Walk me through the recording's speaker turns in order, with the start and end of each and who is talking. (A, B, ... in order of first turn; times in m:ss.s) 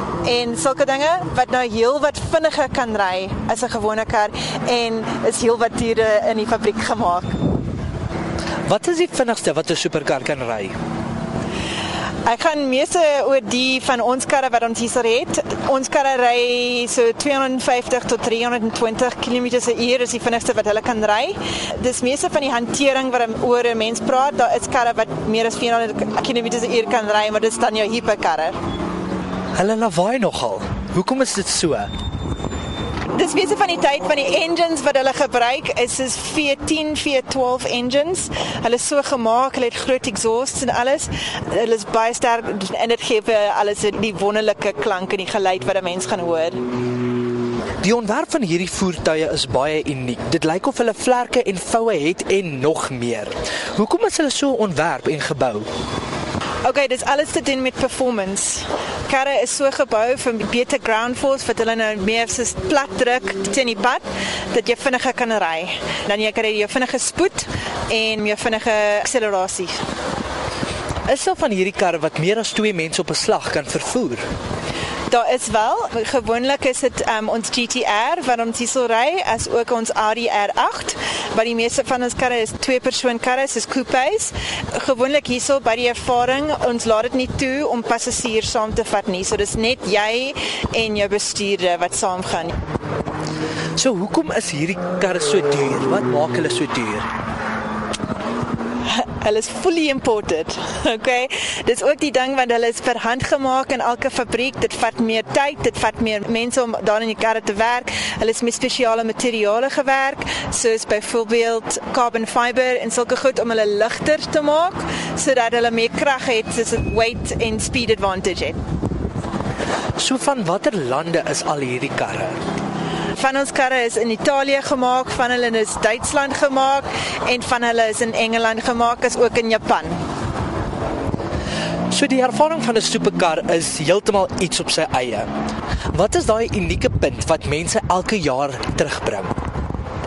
0:00.2-0:07.4 A
0:08.7-0:10.7 B
0:12.2-0:28.6 A
0:29.6-0:31.9 B
0:33.1-0:46.6 A
0:47.8-0:55.7 B
0:56.6-1:09.8 A
1:11.1-1:14.2 B
1:15.1-1:32.6 A
1:33.8-1:37.1 B
1:38.9-1:58.6 A
2:00.0-2:02.4 B
2:03.2-2:10.0 A
2:11.9-2:15.3 B
2:15.9-2:19.4 B